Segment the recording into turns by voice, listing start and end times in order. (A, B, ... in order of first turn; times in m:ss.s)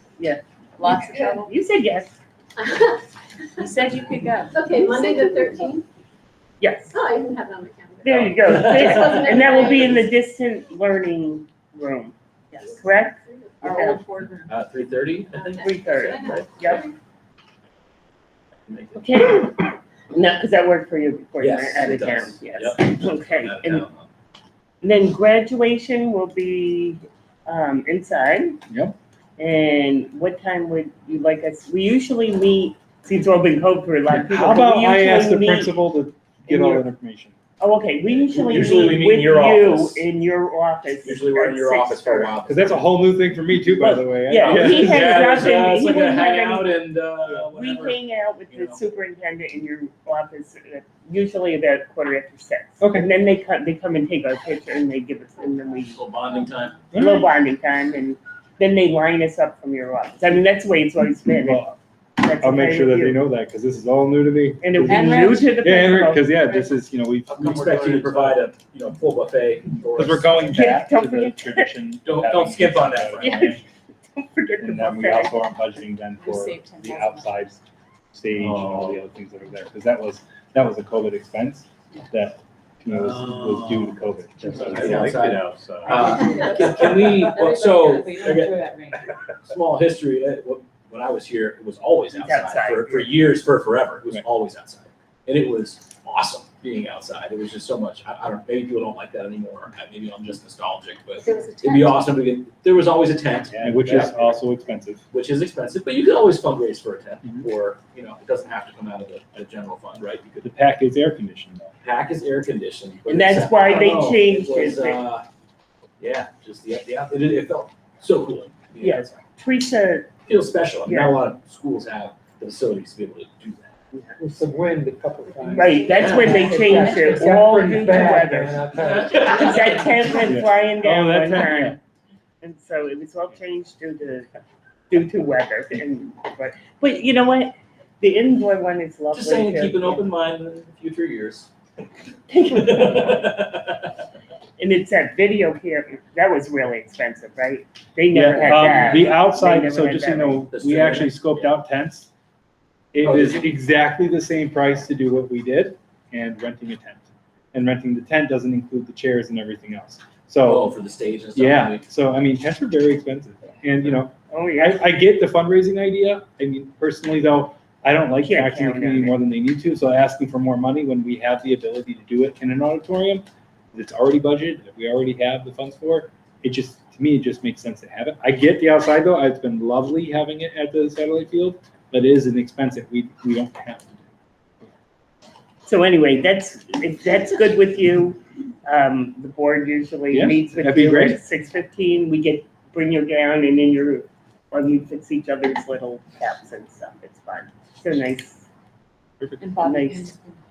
0:00.2-0:02.1 A
0:00.8-0:01.5 B
0:03.6-0:05.8 B
0:04.5-0:05.8 C
0:06.6-0:07.0 A
0:06.9-0:10.0 C
0:08.0-0:14.0 A
0:13.6-0:14.5 B
0:14.5-0:16.4 D
0:15.4-0:16.9 C
0:15.5-0:16.8 A
0:19.0-0:23.9 A
0:21.4-0:23.9 D
0:24.8-0:28.6 A
0:28.7-0:29.0 E
0:29.4-0:35.8 A
0:34.1-0:37.4 E
0:36.5-0:36.8 A
0:37.6-0:42.3 A
0:38.3-0:39.7 D
0:39.2-0:40.0 C
0:41.0-0:42.8 D
0:42.4-0:45.3 E
0:43.8-0:46.7 A
0:44.4-0:48.0 D
0:47.5-0:56.0 A
0:48.5-0:48.8 D
0:52.8-0:53.1 E
0:56.0-0:56.8 D
0:56.9-0:57.3 E
0:56.9-1:01.6 A
1:01.3-1:01.8 E
1:02.2-1:03.2 A
1:02.4-1:08.4 E
1:04.6-1:06.3 A
1:04.9-1:05.4 B
1:07.3-1:10.7 D
1:08.0-1:08.9 C
1:09.9-1:13.6 E
1:10.5-1:11.7 A
1:12.0-1:13.5 D
1:13.2-1:13.6 A
1:14.2-1:15.4 A
1:14.6-1:17.6 E
1:16.2-1:17.3 B
1:18.1-1:25.9 E
1:18.4-1:19.0 D
1:23.0-1:24.0 D
1:24.7-1:41.8 D
1:25.9-1:29.1 B
1:26.0-1:28.5 C
1:32.2-1:33.1 A
1:32.2-1:33.2 C
1:36.5-1:36.8 C
1:40.8-1:42.8 C
1:41.2-1:42.1 B
1:42.4-1:44.3 D
1:43.5-1:45.0 E
1:45.1-1:50.5 D
1:50.4-1:51.7 E
1:51.8-1:55.2 D
1:53.1-1:55.0 A
1:56.0-1:59.1 D
1:58.8-2:00.1 A
2:00.3-2:03.7 D
2:00.9-2:01.2 A
2:03.9-2:04.2 A
2:04.2-2:09.7 F
2:05.5-2:11.8 A
2:08.8-2:09.8 D
2:10.2-2:11.8 E
2:12.4-2:14.3 A
2:14.9-2:20.1 A
2:19.1-2:21.5 D
2:22.3-2:23.3 A
2:22.6-2:23.7 D
2:24.6-2:30.4 A
2:28.1-2:32.1 E
2:30.5-2:31.3 D
2:32.9-2:40.7 E
2:33.0-2:33.5 D
2:40.4-2:41.8 D
2:41.3-3:04.1 E
2:44.3-2:44.9 A
2:48.2-2:49.2 A
3:05.6-3:18.5 A
3:10.1-3:11.2 E
3:19.4-3:20.4 B
3:19.6-3:20.1 A